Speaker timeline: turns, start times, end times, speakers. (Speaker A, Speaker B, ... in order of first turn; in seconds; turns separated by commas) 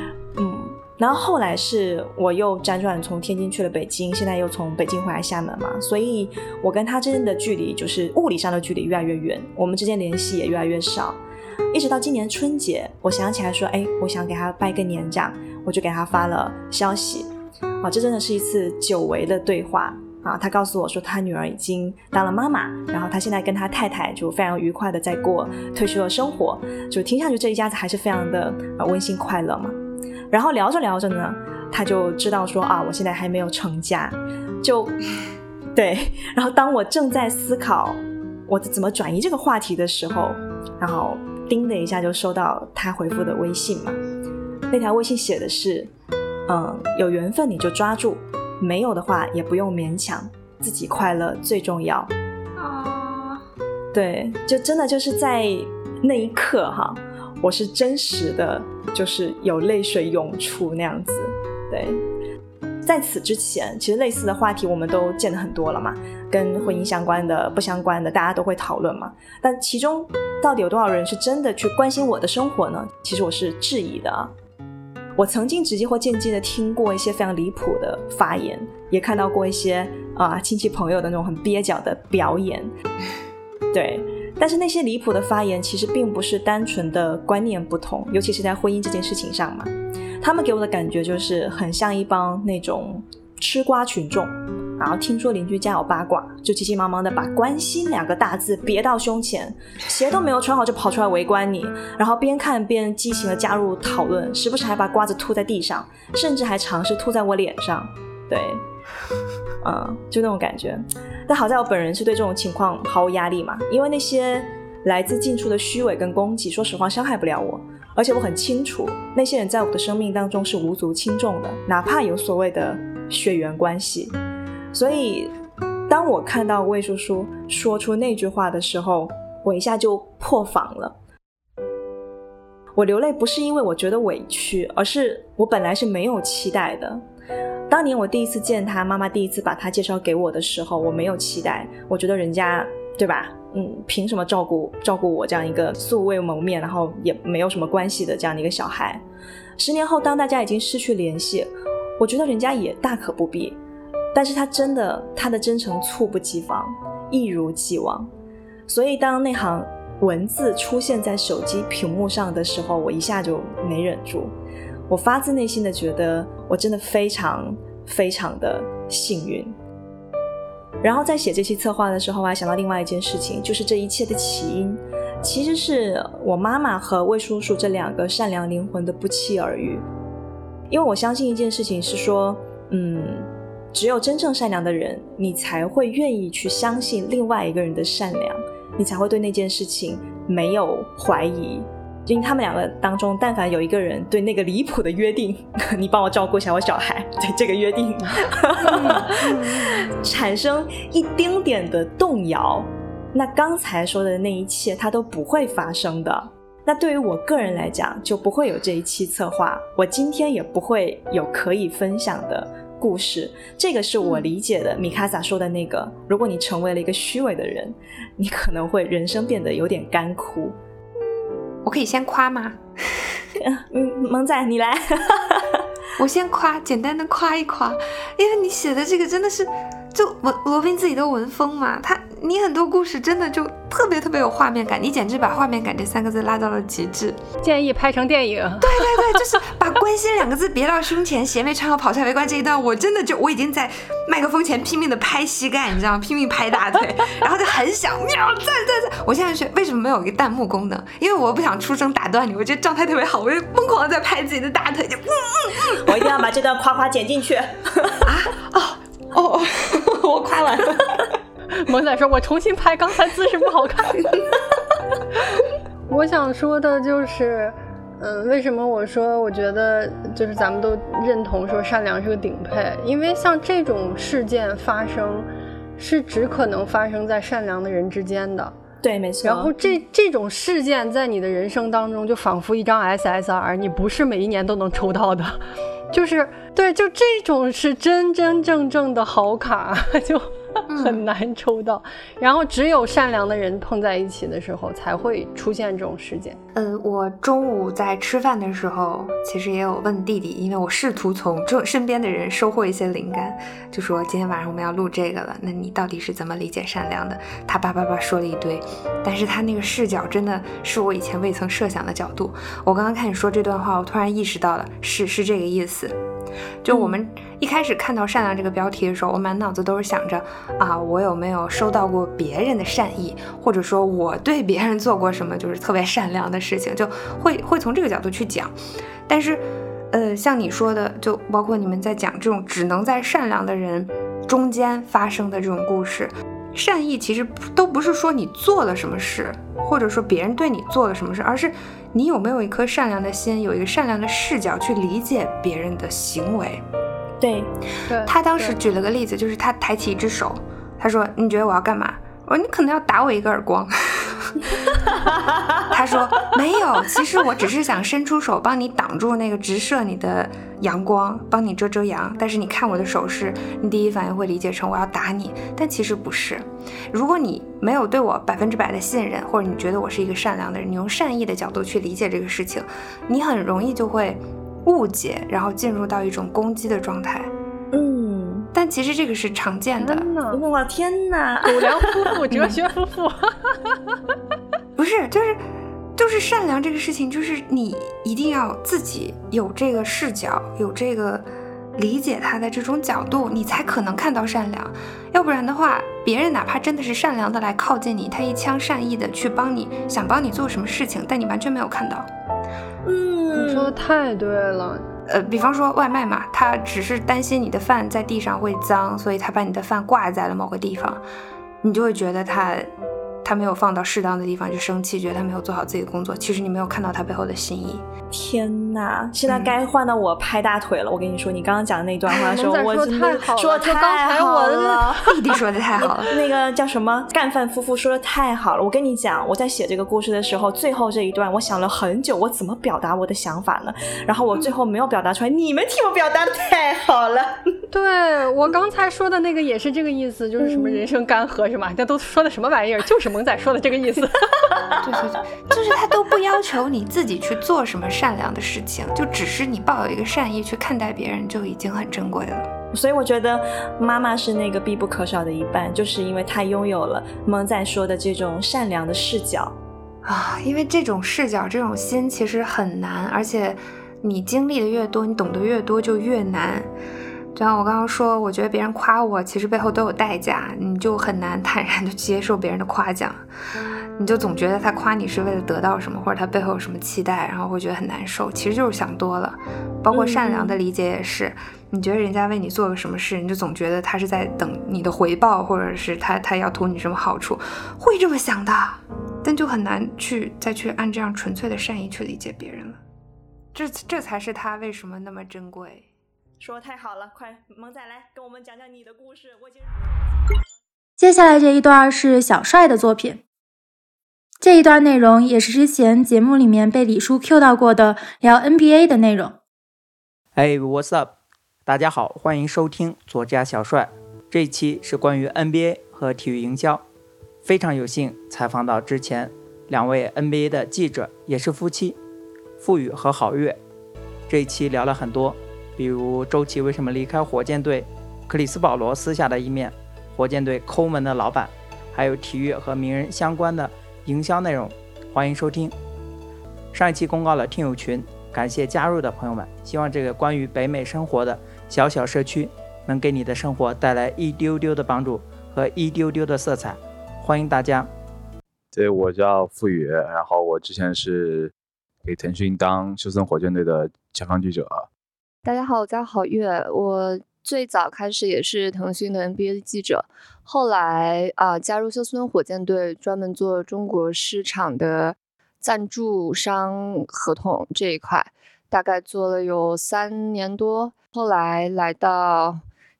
Speaker A: 0.3-11.2, Speaker A: 11.7-29.8, Speaker A: 30.3-34.9, Speaker A: 35.7-44.0, Speaker A: 44.7-45.9, Speaker A: 46.5-52.1, Speaker A: 53.9-62.0, Speaker A: 62.8-74.3, Speaker A: 75.2-82.7, Speaker A: 83.7-108.6, Speaker A: 109.6-124.2, Speaker A: 124.7-125.3, Speaker A: 125.9-131.0, Speaker A: 132.8-137.0, Speaker A: 137.7-149.0, Speaker A: 149.6-153.6, Speaker A: 154.1-158.1, Speaker A: 158.7-164.3, Speaker A: 164.9-169.6, Speaker A: 170.8-179.8, Speaker A: 180.7-220.6, Speaker B: 198.8-199.7, Speaker C: 221.6-222.6, Speaker A: 223.4-225.6, Speaker C: 226.0-237.2, Speaker B: 237.4-239.2, Speaker C: 238.6-255.5, Speaker A: 255.8-258.0, Speaker B: 261.6-264.1, Speaker B: 265.9-278.5, Speaker A: 278.8-279.5, Speaker B: 279.2-296.4, Speaker C: 290.7-291.1, Speaker C: 296.5-316.0, Speaker C: 316.6-328.6, Speaker C: 329.1-346.6, Speaker A: 347.2-347.5, Speaker B: 347.9-348.6, Speaker C: 348.0-354.2, Speaker C: 355.7-377.3, Speaker A: 377.7-378.5, Speaker C: 378.5-380.1, Speaker B: 379.8-380.4, Speaker A: 380.3-381.9, Speaker B: 381.4-383.8, Speaker C: 384.8-385.4, Speaker C: 385.9-402.1, Speaker B: 402.9-404.9, Speaker C: 405.1-411.1, Speaker C: 411.6-412.7, Speaker C: 413.2-417.9, Speaker A: 418.1-424.9, Speaker B: 422.1-424.9, Speaker C: 425.0-426.1, Speaker A: 426.0-437.4, Speaker B: 437.7-444.2, Speaker C: 440.4-440.8, Speaker C: 444.8-452.5, Speaker A: 452.7-459.6, Speaker C: 460.0-466.7, Speaker C: 467.3-473.2, Speaker C: 474.0-492.8, Speaker C: 493.5-495.9, Speaker A: 496.4-500.3, Speaker D: 501.0-503.2, Speaker D: 504.4-509.3, Speaker E: 510.3-511.1, Speaker E: 511.7-516.8, Speaker E: 517.4-522.0, Speaker E: 522.6-523.6, Speaker E: 524.3-535.7, Speaker E: 536.7-547.9, Speaker F: 548.7-551.5, Speaker F: 552.0-554.9, Speaker G: 555.4-572.6